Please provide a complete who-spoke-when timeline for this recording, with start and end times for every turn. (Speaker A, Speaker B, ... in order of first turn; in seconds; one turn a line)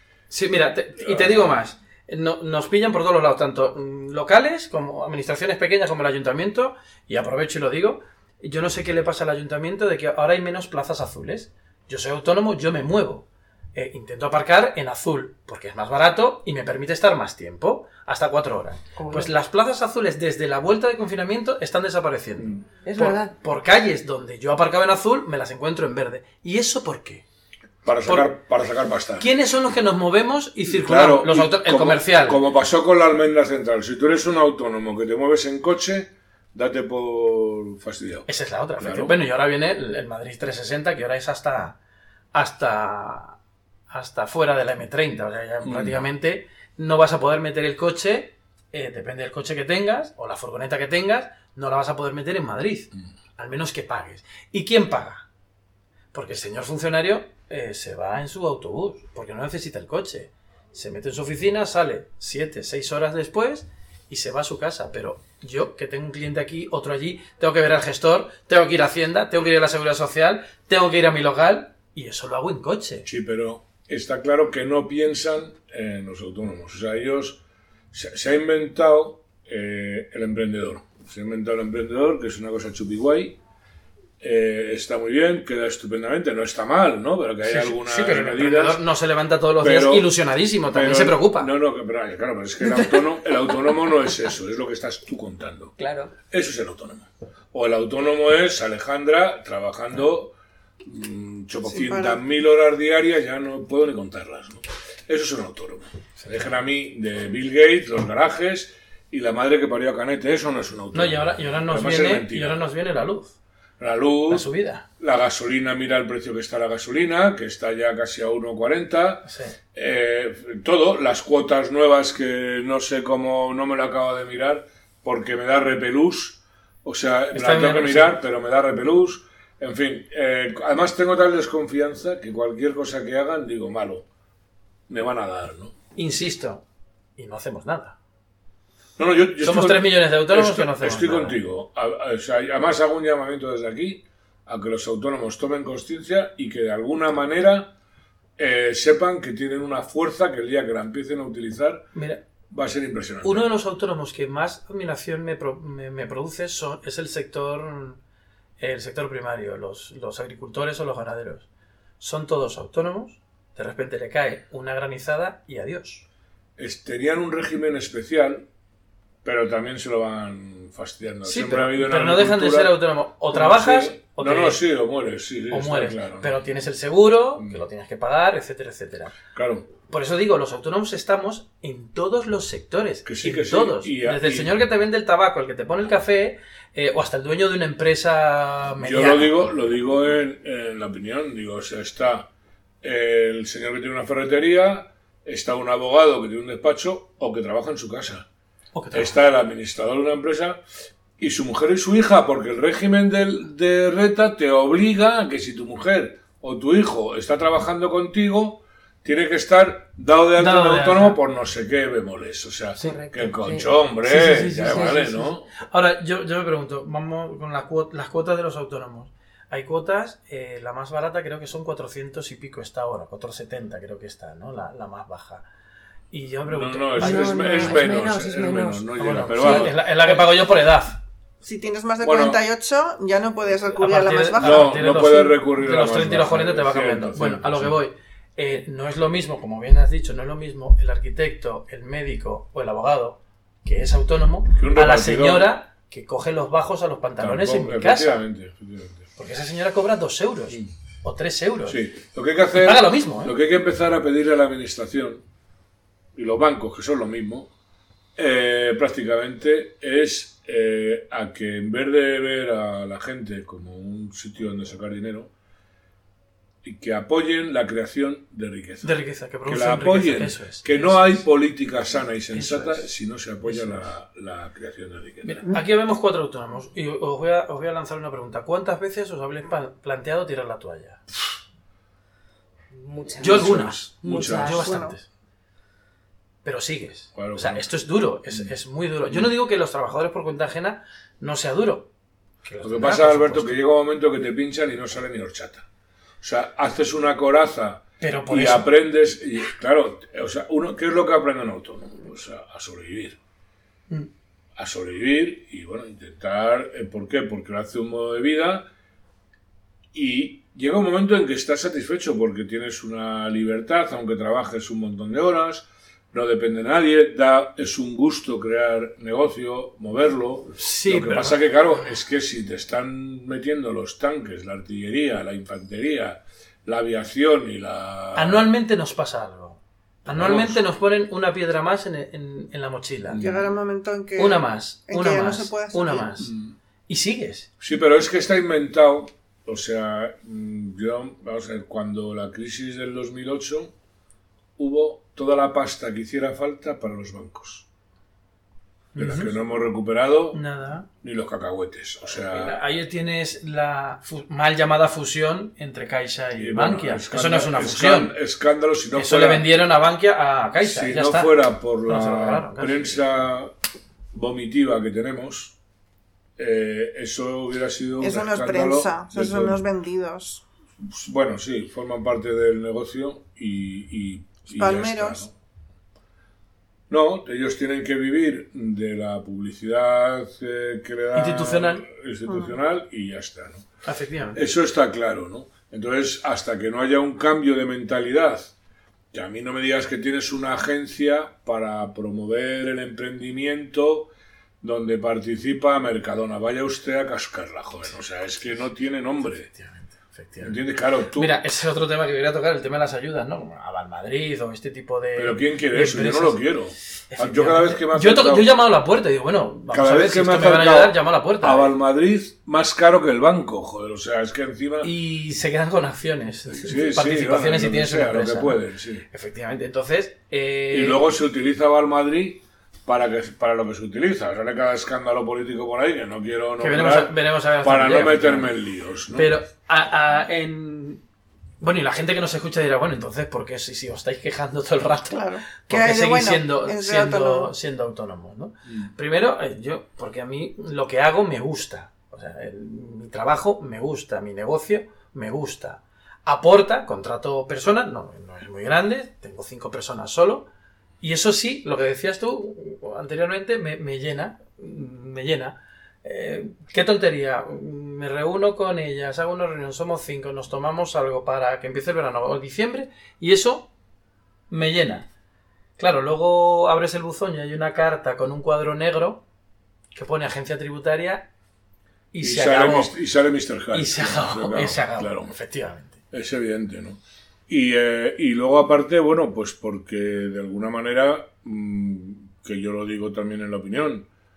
Speaker A: 0.3-27.2
Speaker B: 1.0-1.5
Speaker C: 18.9-19.3
Speaker C: 22.8-23.3
Speaker B: 27.8-29.3
Speaker A: 29.2-32.4
Speaker B: 30.7-38.3
Speaker A: 38.3-41.8
Speaker B: 38.8-39.1
Speaker A: 42.3-43.4
Speaker A: 43.9-55.2
Speaker B: 45.6-46.0
Speaker A: 56.1-73.0
Speaker B: 73.0-83.4
Speaker B: 84.2-88.8
Speaker A: 87.4-91.5
Speaker B: 89.6-90.1
Speaker B: 90.7-95.7
Speaker C: 95.8-96.1
Speaker B: 96.3-100.3
Speaker B: 100.8-112.6
Speaker D: 101.7-102.2
Speaker A: 110.9-113.3
Speaker B: 113.8-114.5
Speaker A: 114.3-114.8
Speaker B: 115.0-134.1
Speaker A: 119.2-119.5
Speaker A: 127.3-128.1
Speaker B: 134.9-135.8
Speaker A: 135.9-136.6
Speaker A: 137.2-138.0
Speaker B: 139.0-147.7
Speaker A: 139.4-141.4
Speaker B: 148.4-151.9
Speaker A: 151.9-152.2
Speaker B: 152.5-153.4
Speaker A: 153.2-158.0
Speaker A: 158.6-161.5
Speaker A: 162.0-166.0
Speaker B: 166.6-168.5
Speaker B: 169.2-172.8
Speaker A: 171.2-174.6
Speaker B: 173.3-176.3
Speaker A: 175.5-179.2
Speaker B: 179.3-179.7
Speaker A: 179.8-189.4
Speaker B: 183.0-184.5
Speaker B: 188.8-192.3
Speaker B: 192.8-198.2
Speaker A: 198.7-199.1
Speaker B: 198.9-200.6
Speaker B: 201.2-215.5
Speaker A: 210.4-211.2
Speaker C: 212.8-213.7
Speaker A: 214.0-225.4
Speaker A: 226.1-227.9
Speaker B: 226.5-230.2
Speaker C: 227.0-228.9
Speaker A: 229.0-231.0
Speaker D: 231.4-234.8
Speaker B: 232.0-232.4
Speaker A: 233.7-248.2
Speaker B: 234.4-237.8
Speaker B: 244.6-245.5
Speaker B: 247.2-249.1
Speaker A: 249.2-251.8
Speaker B: 251.7-255.2
Speaker A: 252.6-253.3
Speaker B: 256.1-257.5
Speaker B: 258.1-265.3
Speaker B: 266.6-268.9
Speaker A: 268.8-271.2
Speaker B: 269.4-275.4
Speaker A: 272.3-272.9
Speaker A: 273.4-273.8
Speaker A: 275.2-281.0
Speaker C: 282.7-284.7
Speaker A: 283.2-285.1
Speaker B: 283.2-284.6
Speaker D: 284.6-284.9
Speaker A: 286.4-291.9
Speaker B: 287.1-287.6
Speaker A: 292.4-293.6
Speaker B: 292.6-295.6
Speaker B: 296.2-303.2
Speaker A: 298.0-298.7
Speaker B: 304.6-308.7
Speaker B: 309.9-328.5
Speaker A: 320.6-321.4
Speaker A: 328.1-333.2
Speaker B: 330.1-330.6
Speaker B: 333.1-333.5
Speaker D: 333.2-336.1
Speaker A: 334.1-336.3
Speaker B: 336.2-336.6
Speaker A: 336.9-337.5
Speaker B: 337.6-343.7
Speaker B: 344.6-347.6
Speaker A: 348.9-349.3
Speaker B: 349.0-350.4
Speaker A: 350.3-350.9
Speaker B: 351.0-352.6
Speaker A: 352.1-358.1
Speaker B: 356.4-359.4
Speaker A: 358.9-362.9
Speaker B: 360.6-363.5
Speaker B: 364.1-365.6
Speaker B: 366.4-369.6
Speaker D: 368.0-370.4
Speaker B: 370.8-375.3
Speaker D: 374.5-375.2
Speaker B: 376.9-383.7
Speaker A: 381.1-381.9
Speaker D: 382.3-382.5
Speaker A: 383.8-384.4
Speaker B: 384.3-388.5
Speaker B: 389.1-394.1
Speaker B: 394.6-399.5
Speaker A: 397.9-398.4
Speaker A: 399.4-400.6
Speaker B: 400.4-401.3
Speaker A: 401.1-406.4
Speaker B: 405.1-408.5
Speaker A: 407.1-411.7
Speaker B: 409.7-414.9
Speaker A: 414.8-418.6
Speaker B: 416.5-419.1
Speaker A: 419.1-421.0
Speaker B: 420.7-429.3
Speaker A: 426.6-428.5
Speaker A: 429.1-431.0
Speaker A: 431.6-450.4
Speaker D: 435.1-437.5
Speaker A: 451.0-463.7
Speaker A: 464.5-465.1
Speaker A: 465.8-469.2
Speaker A: 469.9-471.3
Speaker A: 472.1-472.9
Speaker B: 472.2-475.3
Speaker A: 473.7-476.0
Speaker B: 476.1-484.1